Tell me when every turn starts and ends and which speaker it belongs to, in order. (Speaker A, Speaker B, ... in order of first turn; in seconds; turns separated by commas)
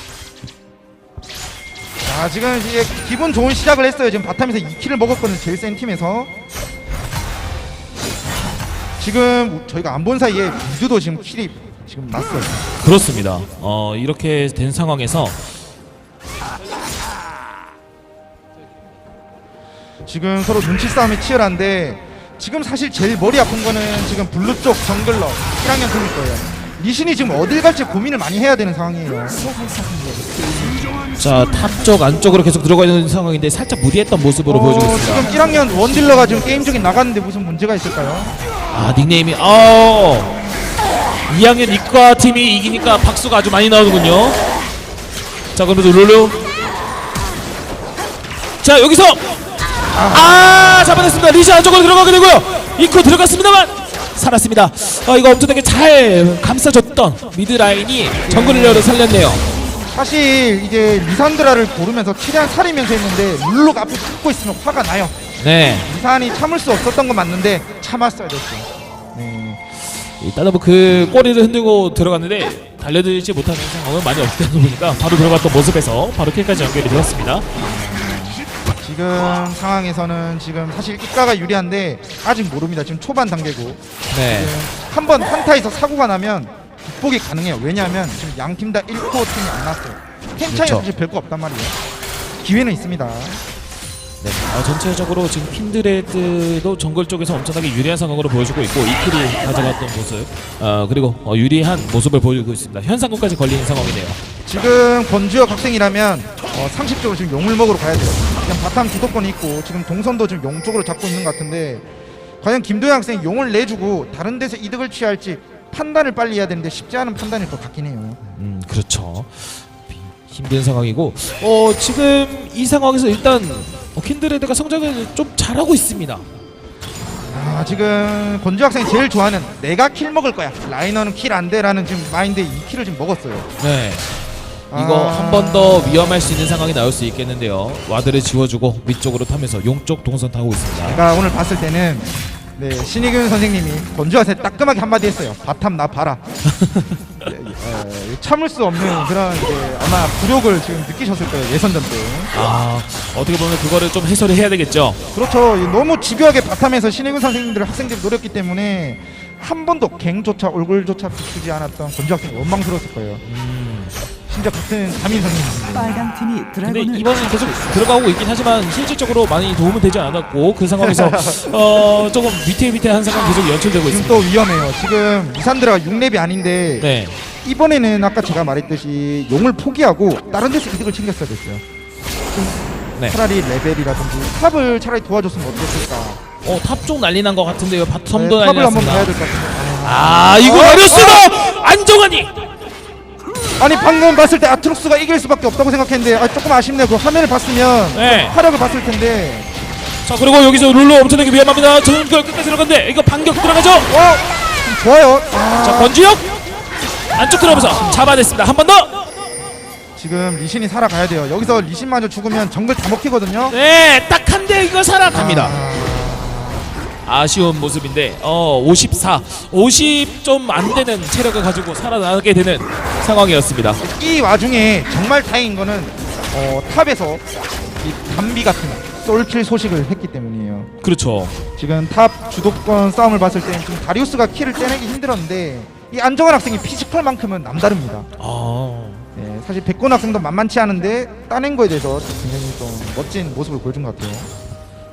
Speaker A: 2.0-6.3, Speaker A: 9.0-12.6, Speaker B: 12.8-15.4, Speaker A: 20.1-29.4, Speaker C: 29.4-30.8, Speaker B: 31.2-35.3, Speaker A: 34.5-38.3, Speaker C: 35.1-36.8, Speaker B: 38.7-40.3, Speaker B: 41.3-44.4, Speaker B: 45.5-46.4, Speaker B: 48.6-49.3, Speaker A: 49.9-51.4, Speaker B: 50.1-59.4, Speaker A: 58.3-58.9, Speaker A: 59.9-65.2, Speaker B: 65.4-65.9, Speaker A: 65.8-69.6, Speaker B: 70.0-77.5, Speaker A: 77.6-91.8, Speaker B: 84.1-84.5, Speaker B: 90.5-90.8, Speaker A: 92.4-93.4, Speaker B: 94.2-104.2, Speaker A: 104.5-111.8, Speaker A: 112.4-118.2, Speaker B: 118.3-126.2, Speaker A: 127.3-133.5, Speaker B: 133.6-134.1, Speaker A: 134.7-136.4, Speaker B: 134.7-141.0, Speaker A: 140.8-146.2, Speaker B: 146.6-147.1, Speaker A: 147.2-152.3, Speaker B: 152.3-155.0, Speaker A: 155.1-163.2, Speaker B: 163.2-163.9, Speaker A: 164.3-166.0, Speaker C: 165.7-167.9, Speaker B: 166.6-174.2, Speaker A: 170.8-171.4, Speaker A: 173.9-176.9, Speaker B: 176.8-177.2, Speaker A: 177.4-181.6, Speaker A: 183.1-186.2, Speaker B: 186.4-189.1, Speaker A: 188.1-191.5, Speaker B: 189.8-192.3, Speaker A: 193.6-199.5, Speaker B: 197.9-198.4, Speaker B: 200.1-203.9, Speaker A: 203.9-205.9, Speaker B: 205.6-206.3, Speaker B: 207.1-209.1, Speaker A: 207.4-208.1, Speaker A: 210.0-213.5, Speaker B: 213.5-215.6, Speaker A: 215.1-216.7, Speaker B: 217.0-223.8, Speaker A: 223.8-227.2, Speaker A: 227.8-230.7, Speaker B: 230.8-231.3, Speaker A: 231.6-238.1, Speaker B: 238.2-239.0, Speaker A: 239.1-244.3